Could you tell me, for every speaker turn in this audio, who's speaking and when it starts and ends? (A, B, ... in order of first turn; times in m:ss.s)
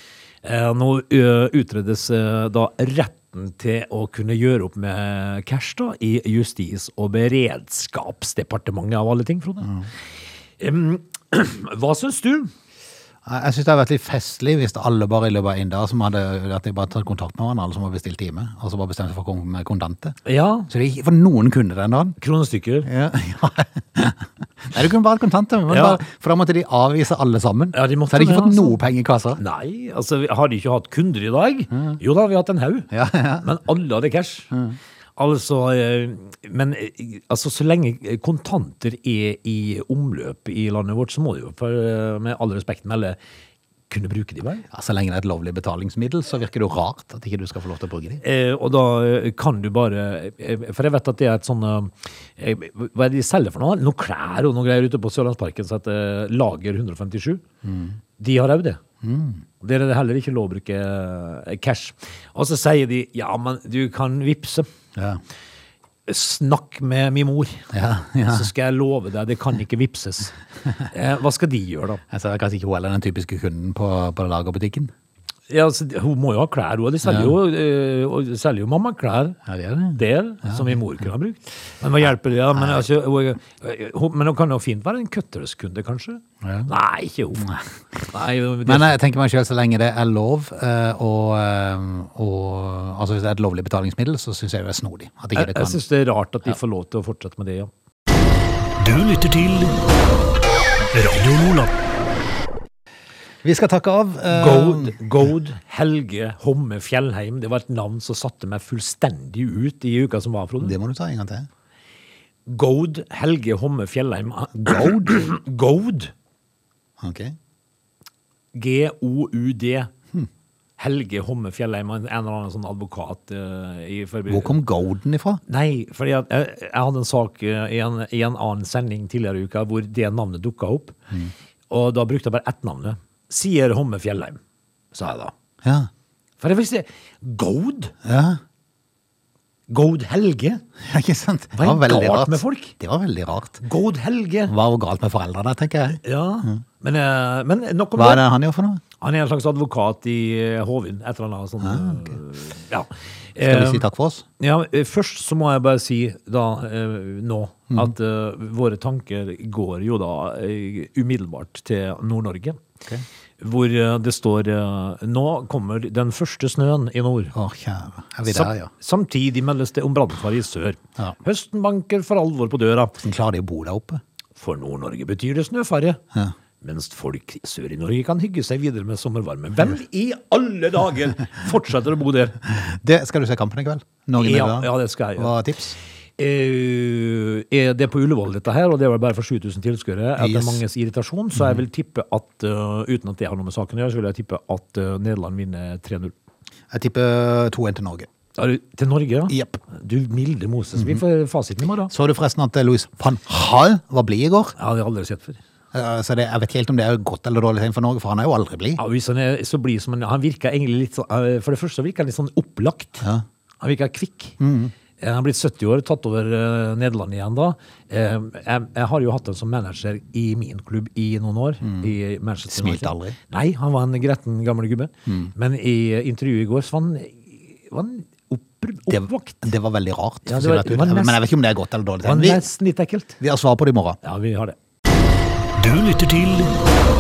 0:00.4-0:09.7 A
0:10.6-0:12.5 A
0:13.2-0:20.2 B
0:20.2-0:20.7 A
0:20.7-0:22.2 B
0:22.2-0:22.9 A
0:22.8-0:29.4 B
0:25.7-0:26.0 A
0:27.7-0:28.8 A
0:29.4-0:32.9 A
0:31.7-0:32.0 B
0:32.9-0:33.5 B
0:33.4-0:34.5 A
0:34.5-0:34.8 B
0:35.2-0:43.2 A
0:43.9-0:44.6 A
0:44.7-0:48.2 B
0:48.2-0:57.4 A
0:57.6-0:58.0 B
0:58.2-0:58.8 A
0:59.0-0:59.4 B
0:59.6-1:04.7 A
1:05.0-1:05.2 B
1:06.1-1:07.7 A
1:07.7-1:08.5 B
1:08.3-1:10.4 A
1:10.9-1:12.0 A
1:12.1-1:14.9 B
1:15.5-1:19.4 A
1:17.0-1:17.4 B
1:19.5-1:20.8 B
1:19.9-1:27.5 A
1:22.6-1:22.8 B
1:26.4-1:26.7 B
1:27.4-1:28.1 B
1:28.1-1:29.0 A
1:28.6-1:35.8 B
1:35.4-1:37.7 A
1:38.8-1:39.8 C
1:40.9-1:41.7 C
1:43.4-1:45.1 B
1:44.3-1:50.8 A
1:50.6-1:51.5 B
1:52.5-1:56.1 A
1:54.5-1:55.2 B
1:57.0-1:57.4 B
1:58.5-1:59.9 A
2:00.8-2:04.6 A
2:04.3-2:05.4 B
2:05.5-2:11.0 A
2:11.7-2:14.4 A
2:14.9-2:15.3 A
2:15.6-2:15.9 B
2:16.4-2:17.9 A
2:18.0-2:18.4 B
2:19.7-2:20.6 A
2:20.8-2:23.6 B
2:21.6-2:22.7 A
2:23.6-2:24.5 A
2:24.5-2:26.6 B
2:26.0-2:28.3 A
2:28.0-2:28.8 B
2:29.0-2:33.9 A
2:31.6-2:32.1 B
2:33.4-2:34.2 B
2:34.4-2:42.6 A
2:43.4-2:47.3 A
2:47.3-2:48.7 B
2:48.3-2:53.0 A
2:53.0-2:54.0 B
2:54.4-2:56.0 A
2:56.6-3:02.4 A
3:02.5-3:05.8 B
3:04.2-3:05.4 A
3:06.2-3:16.1 A
3:10.2-3:10.6 B
3:16.7-3:18.1 B
3:18.4-3:21.9 A
3:19.3-3:19.6 B
3:21.9-3:24.6 B
3:24.6-3:25.4 A
3:25.7-3:28.8 B
3:28.8-3:33.0 A
3:33.6-3:34.4 A
3:34.4-3:34.7 B
3:35.0-3:49.5 A
3:41.6-3:41.9 B
3:42.5-3:43.2 B
3:45.1-3:45.3 B
3:48.9-3:52.5 B
3:50.3-3:51.2 A
3:52.0-3:53.2 A
3:53.2-3:54.0 B
3:54.0-3:54.6 A
3:55.6-3:56.6 C